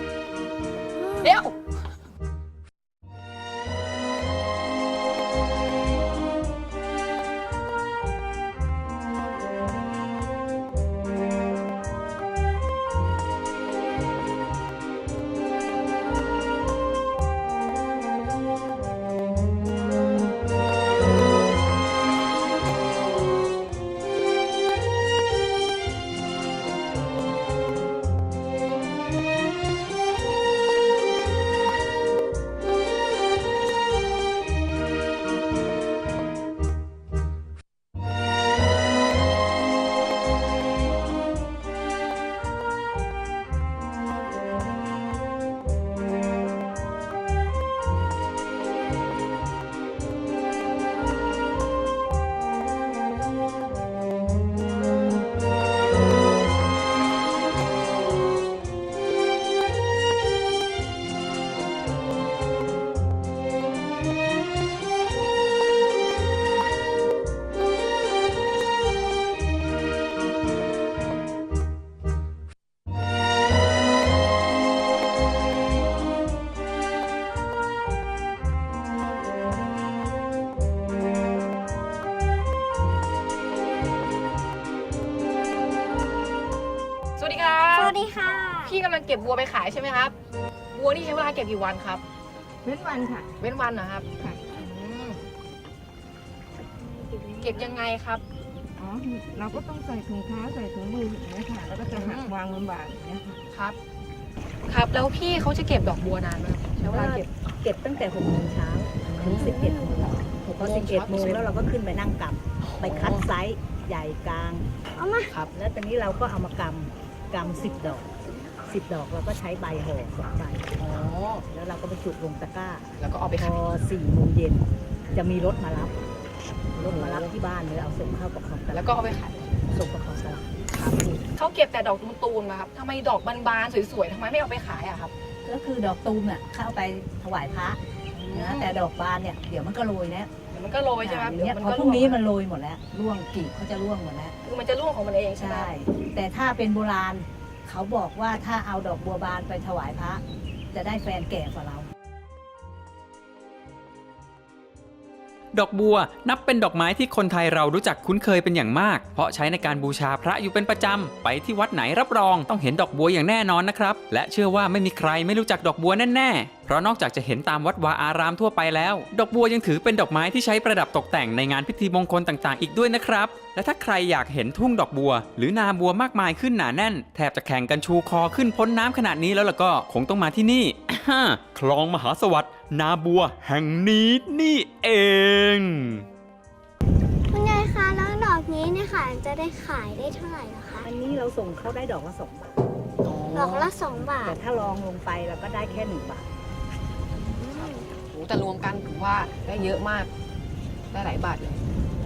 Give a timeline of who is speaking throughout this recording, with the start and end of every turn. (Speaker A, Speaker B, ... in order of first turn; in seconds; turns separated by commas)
Speaker A: 1.0-1.4, Speaker B: 1.2-1.6, Speaker B: 87.2-88.0, Speaker A: 87.7-88.8, Speaker B: 88.7-90.1, Speaker B: 90.7-92.0, Speaker C: 92.6-93.3, Speaker B: 93.4-95.2, Speaker C: 94.2-94.4, Speaker A: 96.8-97.6, Speaker B: 97.4-98.2, Speaker C: 98.8-103.4, Speaker B: 101.9-102.4, Speaker B: 103.5-103.8, Speaker B: 104.7-107.3, Speaker D: 106.9-114.7, Speaker B: 109.0-109.5, Speaker A: 109.4-109.9, Speaker B: 110.5-111.5, Speaker B: 112.7-113.2, Speaker A: 115.0-115.3, Speaker D: 115.5-118.1, Speaker A: 117.4-117.8, Speaker D: 118.7-120.7, Speaker B: 120.8-121.5, Speaker D: 121.5-125.9, Speaker B: 123.0-123.6, Speaker D: 126.8-128.9, Speaker B: 126.8-127.3, Speaker B: 128.7-129.5, Speaker D: 129.7-130.6, Speaker B: 130.7-135.1, Speaker D: 135.4-137.8, Speaker B: 138.1-138.7, Speaker D: 138.3-140.3, Speaker B: 140.5-142.2, Speaker D: 141.0-144.3, Speaker B: 144.4-145.7, Speaker D: 145.4-151.9, Speaker E: 155.5-186.1, Speaker A: 187.3-190.9, Speaker D: 190.8-192.6, Speaker B: 193.0-193.7, Speaker A: 193.3-194.4, Speaker D: 193.9-196.3, Speaker A: 197.2-197.9, Speaker B: 198.1-200.1, Speaker B: 200.9-201.6